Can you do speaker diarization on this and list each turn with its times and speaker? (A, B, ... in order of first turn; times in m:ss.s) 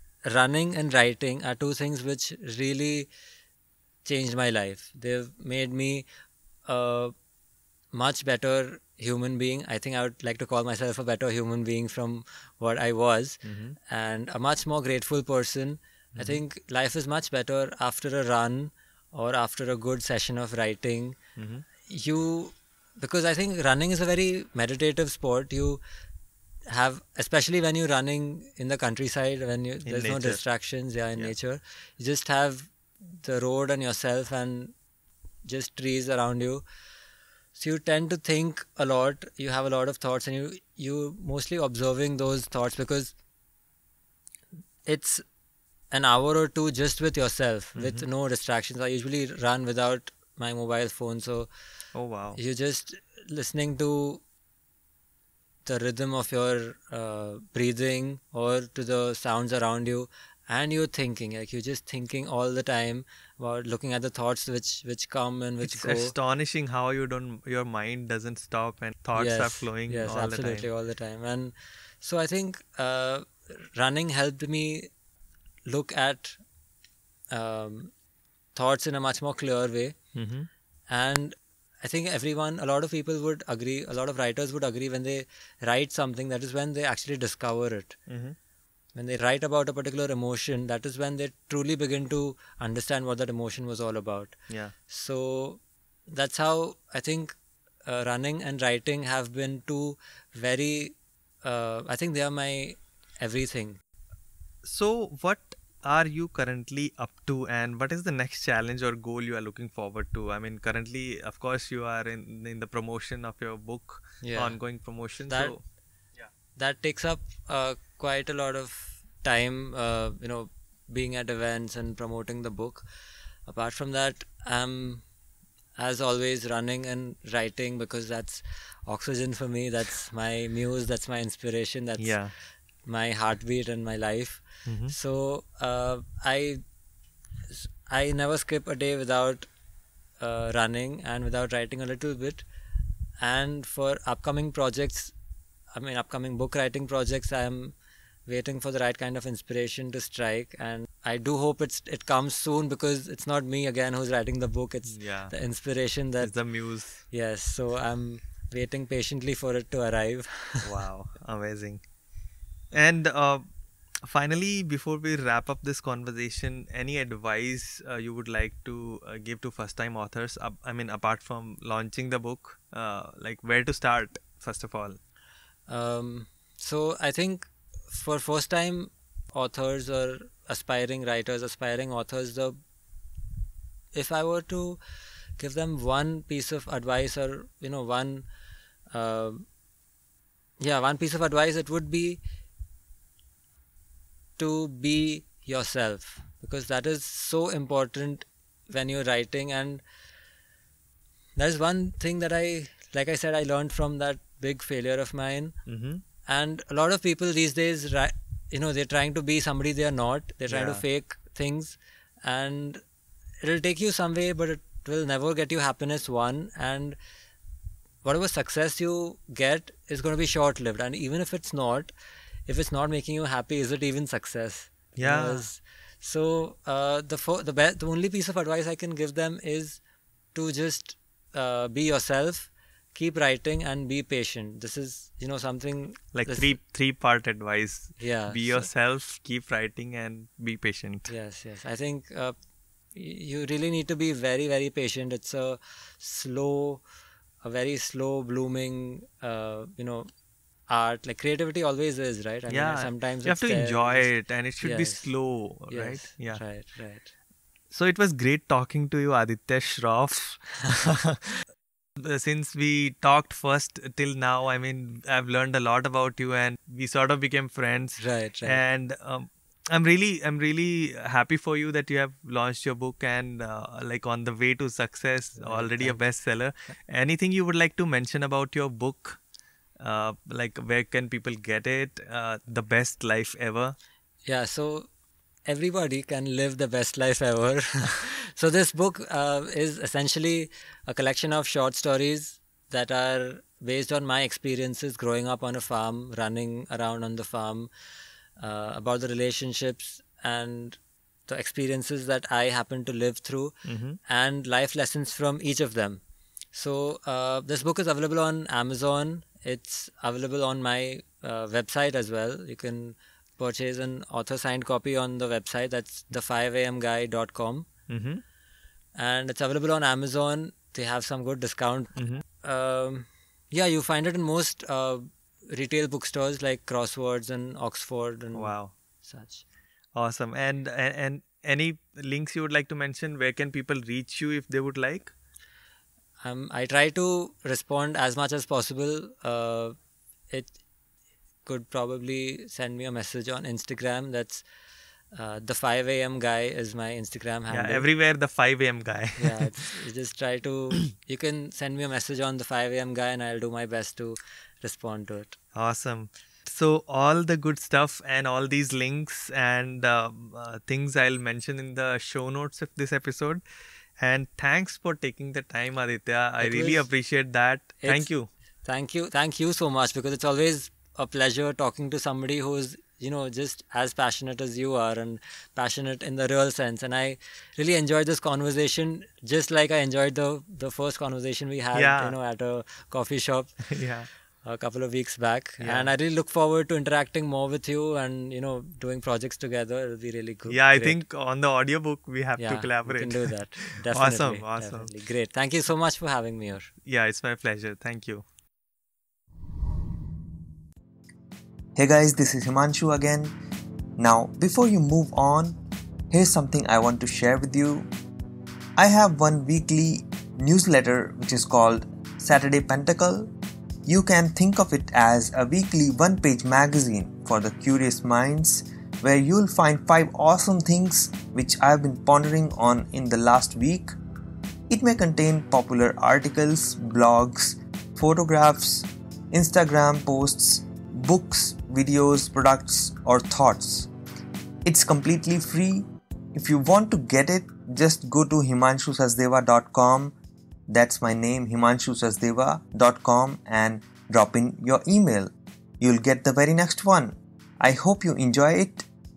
0:00.2-0:03.1 A
0:04.0-0:06.0 A
0:06.7-0:07.1 A
0:07.9-0:21.2 A
0:13.4-0:13.8 B
0:16.1-0:16.4 B
0:21.4-0:21.6 B
0:21.8-0:25.8 A
0:26.7-0:34.7 A
0:29.8-0:30.4 B
0:35.4-0:36.6 A
0:37.5-0:43.1 A
0:44.9-0:45.2 A
0:45.9-0:51.5 A
0:47.8-0:48.0 B
0:51.9-0:52.4 B
0:52.4-0:54.2 A
0:55.6-1:06.1 A
1:05.6-1:10.7 B
1:09.1-1:14.9 A
1:15.7-1:16.4 A
1:17.3-1:17.9 A
1:18.5-1:20.0 A
1:20.1-1:20.5 B
1:20.9-1:28.0 A
1:28.1-1:28.4 B
1:28.9-1:34.3 A
1:34.9-1:43.8 A
1:44.6-1:55.6 B
1:54.2-1:54.6 A
1:55.2-1:55.5 A
1:56.6-2:02.8 A
2:03.5-2:05.0 A
2:05.8-2:12.2 A
2:12.0-2:12.3 B
2:12.8-2:16.6 A
2:14.6-2:14.9 B
2:17.5-2:19.5 A
2:20.2-2:22.4 A
2:23.2-2:25.1 A
2:25.7-2:27.7 A
2:28.3-2:36.3 A
2:34.9-2:35.3 B
2:36.2-2:37.0 B
2:37.1-2:40.7 A
2:40.6-2:41.8 B
2:42.7-2:43.4 B
2:44.0-2:55.0 B
2:55.7-3:02.6 A
3:03.9-3:04.8 A
3:05.4-3:08.3 A
3:08.9-3:09.4 A
3:10.6-3:12.2 A
3:14.4-3:19.8 A
3:21.4-3:25.6 A
3:25.6-3:26.0 B
3:26.2-3:32.8 A
3:30.5-3:30.8 B
3:33.4-3:37.0 A
3:38.0-3:41.9 A
3:42.5-3:49.8 A
3:45.0-3:45.4 B
3:50.3-3:56.5 A
3:56.1-4:01.1 B
3:58.0-3:58.7 A
4:01.1-4:02.4 A
4:02.9-4:06.8 A
4:07.4-4:10.1 A
4:10.7-4:15.1 A
4:12.5-4:16.4 B
4:15.7-4:17.1 A
4:17.7-4:21.2 B
4:22.0-4:39.2 B
4:28.0-4:28.6 A
4:35.4-4:36.0 A
4:39.8-4:43.8 B
4:44.2-4:44.9 A
4:45.5-4:57.7 A
4:58.4-5:03.5 A
5:03.6-5:04.0 B
5:04.1-5:06.0 A
5:06.5-5:17.7 A
5:17.9-5:18.2 B
5:19.0-5:29.4 A
5:22.0-5:22.2 B
5:28.3-5:28.7 B
5:29.9-5:35.1 B
5:36.2-5:39.8 A
5:40.3-5:40.5 A
5:41.4-5:44.4 A
5:45.1-5:47.8 A
5:47.5-5:49.5 B
5:49.2-5:55.4 A
5:55.5-6:03.4 B
6:04.0-6:08.3 B
6:06.4-6:06.9 A
6:07.8-6:08.1 A
6:08.6-6:23.5 A
6:21.7-6:22.2 B
6:23.7-6:24.1 B
6:24.4-6:31.0 A
6:25.6-6:25.9 B
6:30.5-6:34.9 B
6:32.4-6:36.7 A
6:36.8-6:38.2 B
6:41.7-6:43.3 C
6:44.0-6:45.6 C
6:46.1-6:47.9 C
6:48.8-6:53.3 C
6:53.8-7:03.9 C
7:04.7-7:13.9 C
7:14.6-7:20.1 C
7:20.7-7:28.8 C